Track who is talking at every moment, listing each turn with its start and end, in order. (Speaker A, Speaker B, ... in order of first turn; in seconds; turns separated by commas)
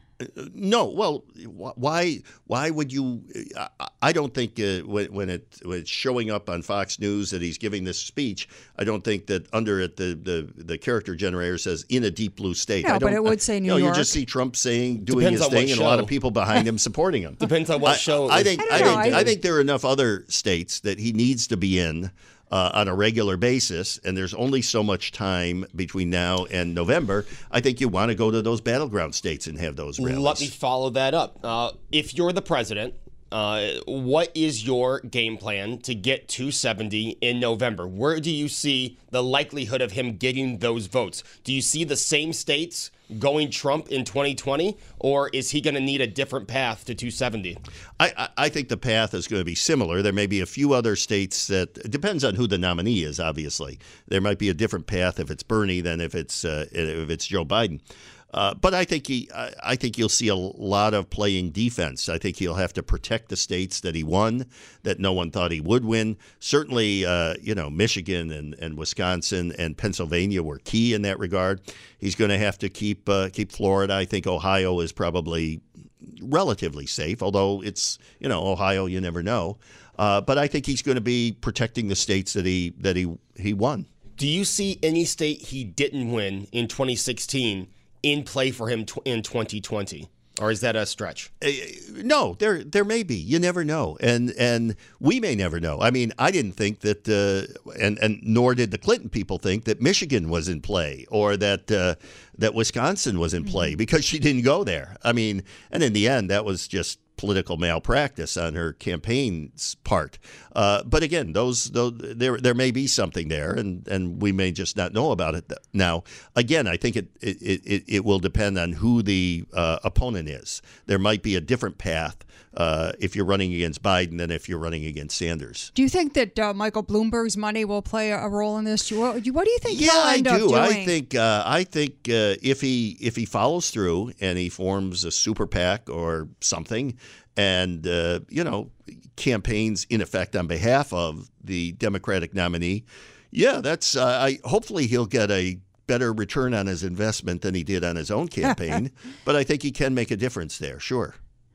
Speaker A: 0.2-30.5, Speaker B: 12.8-14.2, Speaker C: 15.1-16.1, Speaker C: 17.4-19.3, Speaker B: 18.6-19.3, Speaker C: 30.0-47.6, Speaker A: 48.0-83.9, Speaker C: 84.2-91.3, Speaker A: 91.4-125.7, Speaker B: 125.7-130.9, Speaker A: 129.7-151.2